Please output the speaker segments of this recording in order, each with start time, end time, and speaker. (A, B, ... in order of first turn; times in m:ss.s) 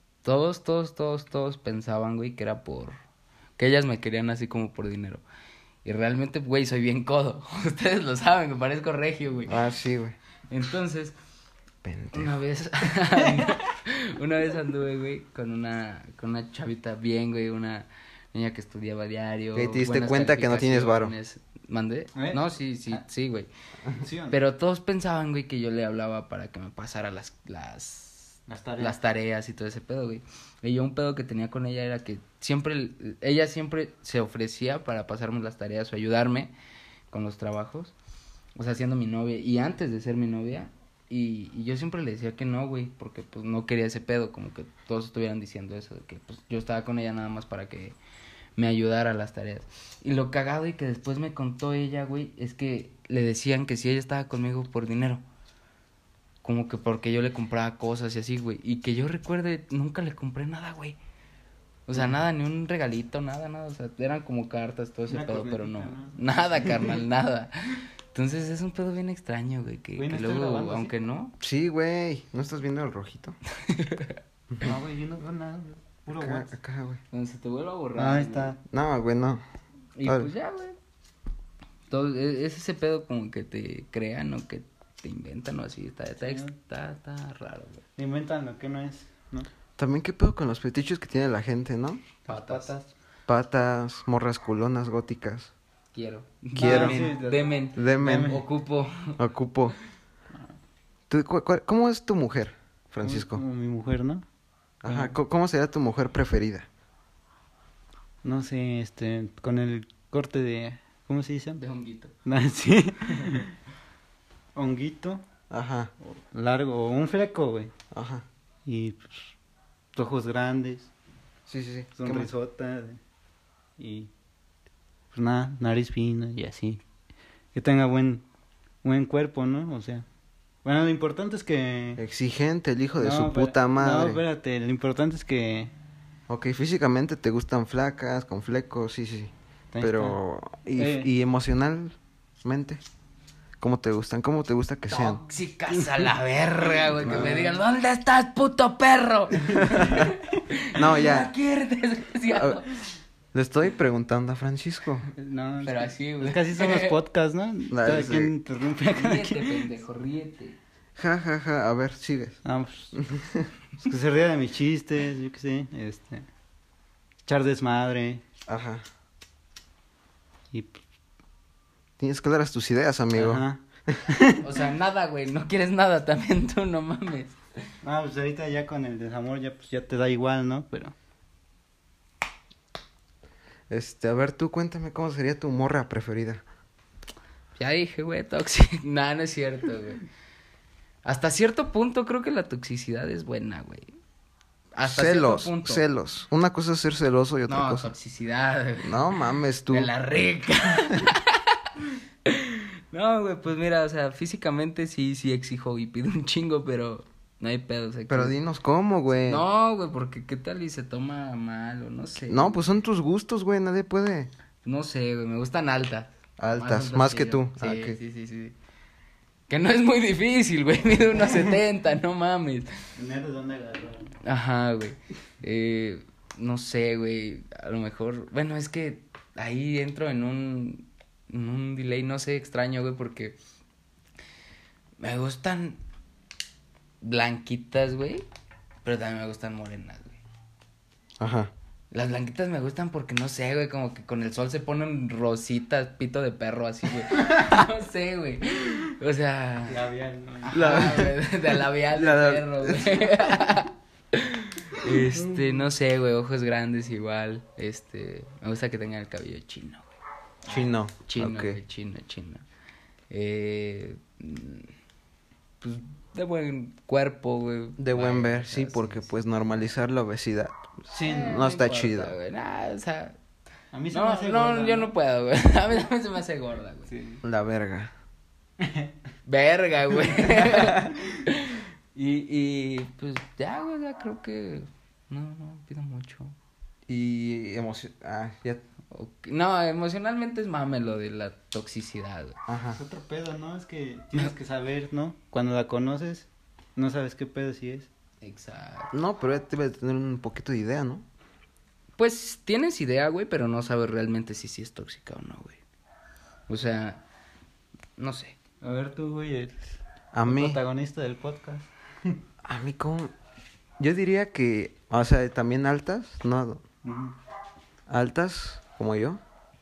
0:00.2-0:03.0 A
0:03.6-0:05.2 A
0:05.8-0:09.6 A
0:09.4-0:10.2 B
0:10.5-0:11.1 A
0:11.8-0:12.3 B
0:12.1-0:23.5 A
0:13.2-0:13.5 C
0:19.5-0:21.1 B
0:22.1-0:23.0 C
0:24.0-0:24.4 C
0:24.3-0:36.5 A
0:28.5-0:29.0 C
0:37.1-0:37.9 A
0:38.6-0:48.0 A
0:48.6-0:55.2 A
0:56.4-1:01.0 A
1:01.9-1:11.3 A
1:05.1-1:07.0 C
1:10.0-1:10.9 C
1:11.4-1:13.4 B
1:13.6-1:14.2 A
1:14.6-1:16.5 C
1:16.2-1:17.0 B
1:17.1-1:18.6 A
1:18.0-1:18.6 C
1:18.7-1:19.4 B
1:20.0-1:20.8 A
1:20.0-1:20.3 B
1:21.9-1:27.8 A
1:26.2-1:26.5 C
1:28.0-1:29.5 C
1:29.8-1:32.0 B
1:32.2-1:32.9 C
1:32.3-1:32.7 A
1:33.3-1:35.5 B
1:35.9-1:39.2 A
1:36.6-1:38.4 C
1:36.6-1:37.0 B
1:37.8-1:38.4 B
1:39.2-1:39.7 B
1:41.1-1:43.4 B
1:43.0-1:44.2 C
1:44.8-1:46.7 B
1:44.8-1:45.1 C
1:48.2-1:51.6 C
1:51.6-1:52.1 A
1:52.2-1:53.5 C
1:54.6-1:55.2 C
1:55.5-1:55.9 B
1:56.3-1:57.7 C
1:57.9-1:58.2 B
1:58.6-1:59.4 C
1:59.9-2:00.9 C
2:01.5-2:02.3 B
2:02.0-2:03.0 C
2:03.8-2:04.1 C
2:05.1-2:06.8 C
2:07.5-2:08.2 C
2:08.8-2:10.0 C
2:10.6-2:12.0 C
2:12.0-2:14.2 B
2:13.0-2:15.7 C
2:16.3-2:22.8 B
2:19.7-2:20.2 C
2:20.7-2:21.1 C
2:23.6-2:25.2 B
2:24.9-2:32.8 A
2:27.0-2:27.6 C
2:27.0-2:27.4 B
2:29.5-2:30.1 C
2:29.6-2:30.1 B
2:30.7-2:31.3 B
2:32.3-2:32.6 B
2:33.3-2:35.1 B
2:35.1-2:39.7 C
2:35.6-2:37.0 A
2:37.7-2:38.3 B
2:38.9-2:40.6 A
2:41.0-2:42.4 B
2:42.4-2:43.0 C
2:42.9-2:43.5 B
2:43.8-2:46.3 C
2:47.2-2:48.2 C
2:48.5-2:48.8 B
2:50.5-2:50.8 C
2:52.0-2:54.0 B
2:53.1-2:54.4 C
2:54.4-2:57.4 A
2:57.8-3:00.9 C
3:03.7-3:06.4 B
3:07.6-3:10.0 A
3:11.0-3:13.9 A
3:14.7-3:15.8 A
3:14.8-3:17.9 B
3:17.5-3:19.2 A
3:18.8-3:19.9 B
3:19.7-3:28.3 A
3:28.1-3:29.4 B
3:29.2-3:32.6 A
3:32.3-3:34.3 B
3:34.6-3:38.5 A
3:36.4-3:38.0 B
3:39.5-3:42.7 A
3:43.0-3:44.1 C
3:44.2-3:53.4 A
3:55.0-3:55.8 A
3:57.0-3:58.2 A
3:58.8-4:00.2 A
4:01.2-4:01.5 B
4:01.9-4:09.9 A
4:09.7-4:11.0 C
4:10.4-4:19.9 A
4:10.5-4:11.2 B
4:11.9-4:13.4 B
4:14.9-4:15.6 C
4:20.4-4:21.6 B
4:20.5-4:22.4 A
4:23.1-4:24.7 A
4:25.6-4:29.1 A
4:27.8-4:32.2 B
4:30.9-4:31.4 C
4:31.0-4:33.2 A
4:33.7-4:34.9 C
4:33.9-4:36.9 A
4:36.9-4:37.2 C
4:37.2-4:37.9 B
4:38.6-4:38.9 C
4:39.2-4:46.3 A
4:46.9-4:48.6 B
4:48.9-4:52.4 A
4:52.5-4:52.8 B
4:52.8-4:57.9 C
4:58.2-4:58.9 A
4:58.9-5:01.0 B
5:02.0-5:05.6 A
5:06.5-5:07.0 A
5:08.0-5:08.4 A
5:08.6-5:12.2 C
5:10.1-5:10.6 B
5:12.4-5:13.1 B
5:13.8-5:16.6 B
5:16.8-5:17.1 C
5:17.9-5:19.2 B